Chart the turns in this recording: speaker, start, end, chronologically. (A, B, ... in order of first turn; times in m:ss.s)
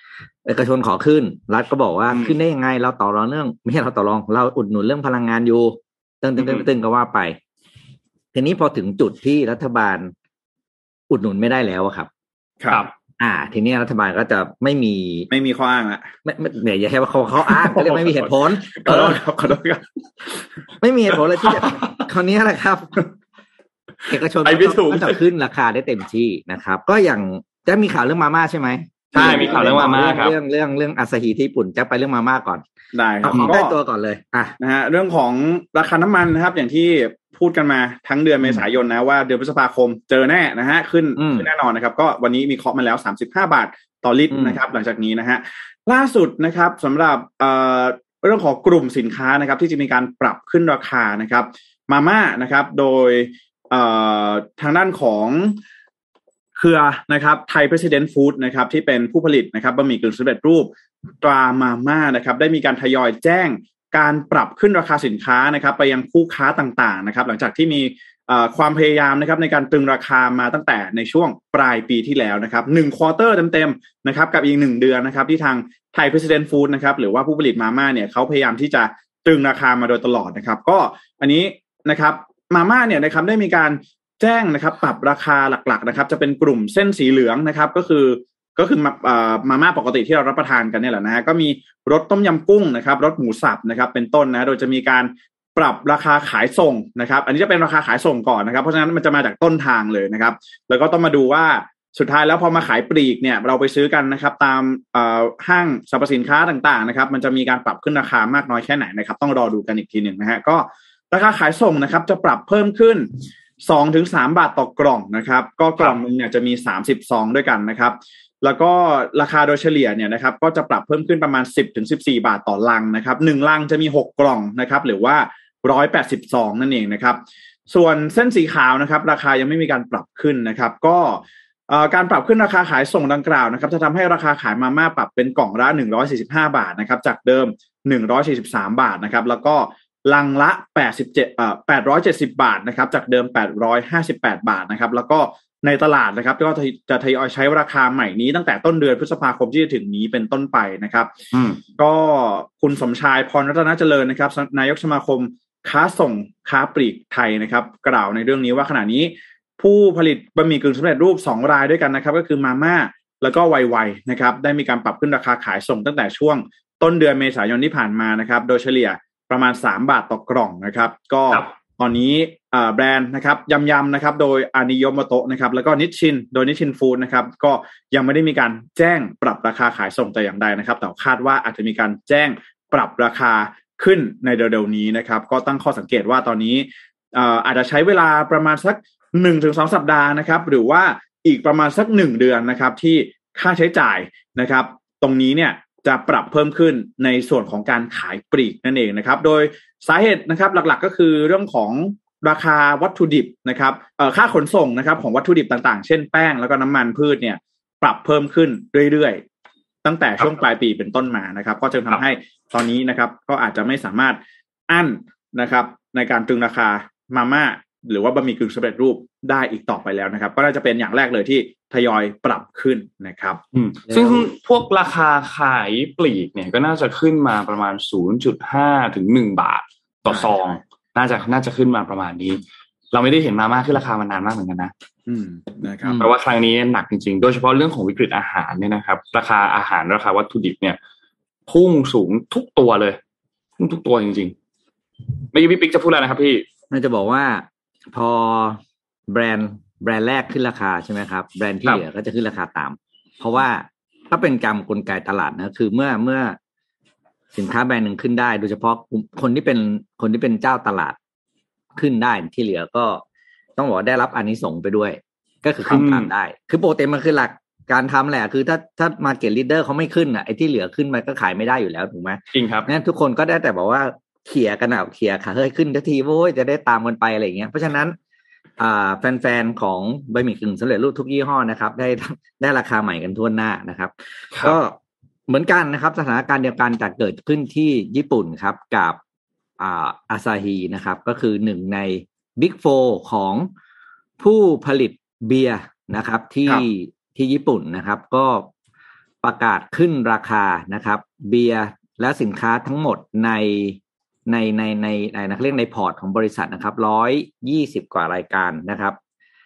0:00.4-0:07.4 A
0:06.4-0:06.6 B
0:08.3-0:10.1 A
0:11.1-0:12.1 A
0:13.2-0:15.3 A
0:15.3-0:16.1 C
0:16.2-0:19.2 A
0:17.5-0:19.8 C
0:20.8-0:23.0 A
0:24.1-0:32.6 A
0:24.4-0:25.2 B
0:29.1-0:30.2 C
0:29.1-0:30.3 B
0:32.9-0:33.7 C
0:33.2-0:34.6 A
0:34.6-0:55.6 C
0:41.2-0:41.5 A
0:44.3-0:44.6 A
0:56.6-1:53.1 C
1:53.6-2:31.1 C
2:31.3-2:31.6 B
2:31.8-3:29.2 C
3:29.8-3:43.4 C
3:43.5-3:54.7 B
3:43.9-3:44.2 A
3:55.1-3:56.0 C
3:55.9-4:00.8 B
4:01.5-4:03.0 B
4:03.6-4:04.3 B
4:05.3-4:06.4 B
4:06.7-4:16.4 A
4:17.3-4:21.0 A
4:21.8-4:23.0 A
4:23.6-4:38.0 A
4:25.7-4:26.1 B
4:32.3-4:32.7 B
4:38.6-4:44.8 A
4:44.3-4:44.6 B
4:45.3-4:49.0 A
4:49.6-4:53.5 A
4:54.2-4:58.5 A
4:59.2-5:09.0 A